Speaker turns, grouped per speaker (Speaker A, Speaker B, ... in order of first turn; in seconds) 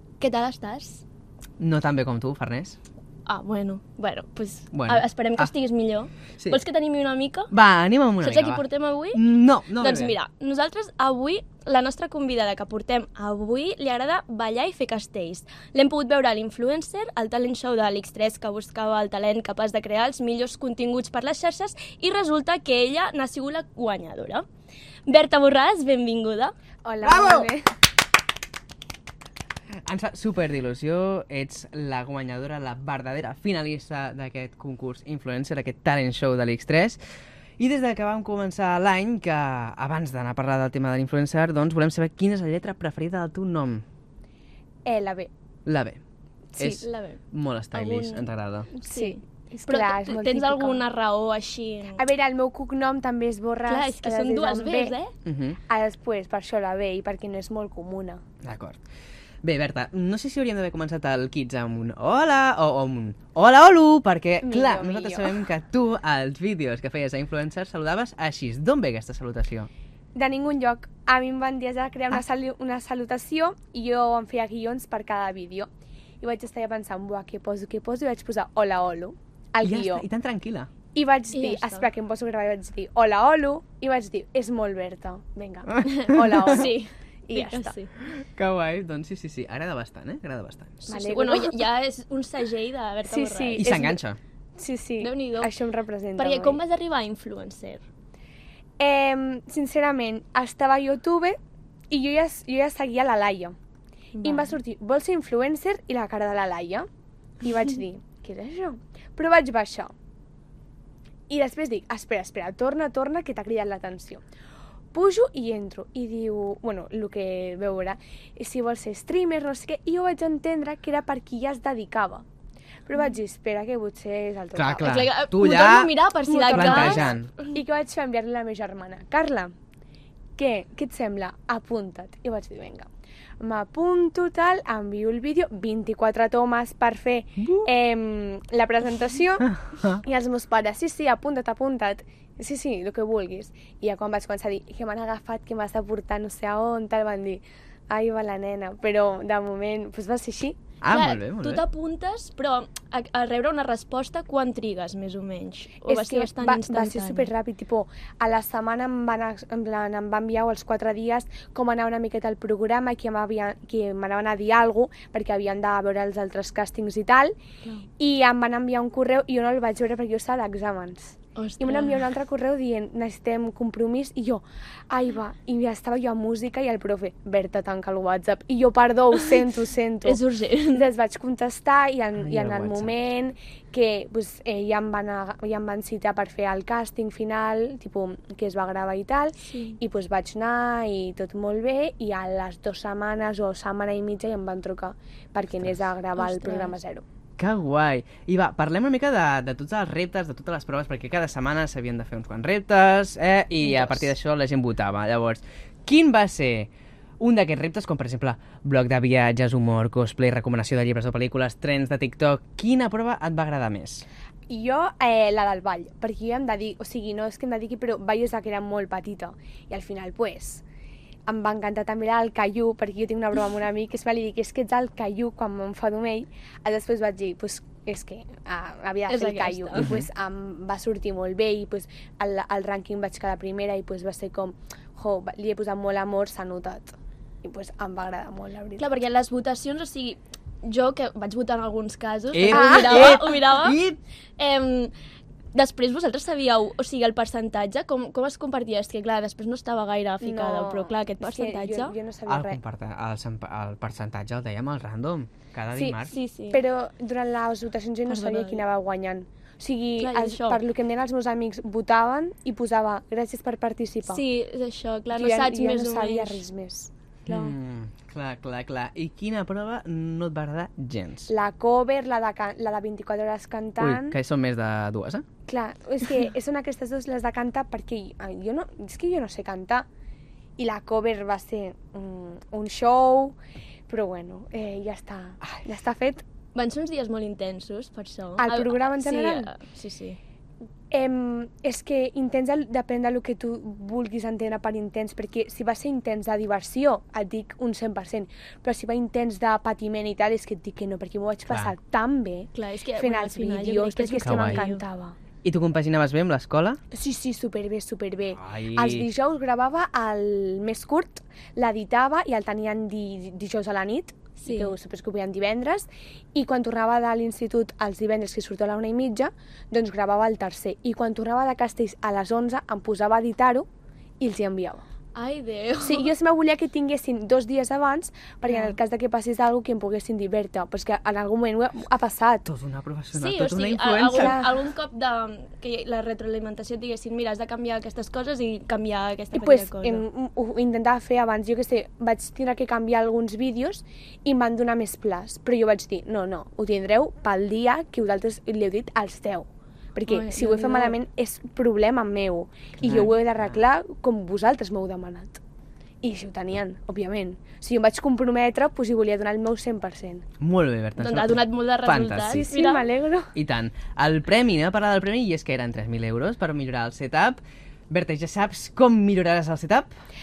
Speaker A: 0.2-1.0, 3.3-7.5, 8.2-24.5, 25.1-26.5, 46.6-47.2, 47.7-48.3, 48.8-52.0, 53.7-55.1, 81.3-81.9, 85.8-87.9, 90.9-93.8, 95.0-95.5, 96.2-97.8, 104.1-104.6, 124.8-127.6, 150.9-157.3, 171.3-172.0, 180.0-180.9, 189.4-189.8, 196.2-196.8, 203.6-204.1, 229.1-230.0, 238.8-243.8, 244.4-244.9, 245.5-251.9, 256.1-256.6, 258.1-258.6, 260.0-260.6, 264.1-266.4, 267.3-267.6, 286.6-290.2, 302.5-304.8, 314.4-314.8, 325.1-326.1, 328.5-328.8, 333.1-340.0, 350.1-351.0, 361.0-362.9
Speaker B: 1.6-2.8, 4.7-5.5, 7.5-10.2, 27.0-27.5, 29.9-37.0, 37.6-43.8, 45.7-46.0, 46.6-48.7, 55.2-55.6, 58.4-58.8, 59.4-69.7, 79.6-80.7, 85.7-86.7, 88.1-90.8, 93.5-94.2, 124.5-127.3, 137.4-137.7, 139.7-140.0, 150.8-151.6, 182.2-182.9, 197.4-214.0, 242.3-244.0, 252.3-256.1, 267.3-271.3, 273.8-275.2, 304.2-304.6, 305.4-306.8, 308.3-309.1, 332.5-334.4, 352.8-353.6, 360.4-362.5, 363.4-369.9
Speaker C: 26.8-27.7, 44.8-45.3, 48.8-50.8, 52.0-55.0, 55.7-58.2, 64.4-65.4, 70.1-75.7, 76.2-80.1, 80.9-86.7, 87.2-87.8, 90.9-91.7, 93.0-94.0, 94.6-96.6, 98.8-101.4, 101.9-103.5, 104.2-106.9, 107.4-109.9, 111.3-114.2, 114.9-122.2, 122.8-125.0, 126.3-129.5, 130.4-132.9, 133.4-150.6, 155.8-167.3, 168.0-180.2, 180.7-197.0, 214.5-220.6, 221.3-239.0, 242.5-243.2, 250.2-252.6, 255.7-264.2, 265.1-266.9, 271.3-274.2, 275.5-279.9, 280.6-283.4, 283.9-286.2, 288.4-289.5, 290.9-305.2, 306.9-323.7, 324.2-324.8, 325.8-332.5, 334.1-334.6, 339.3-355.4, 356.0-360.3, 362.3-363.3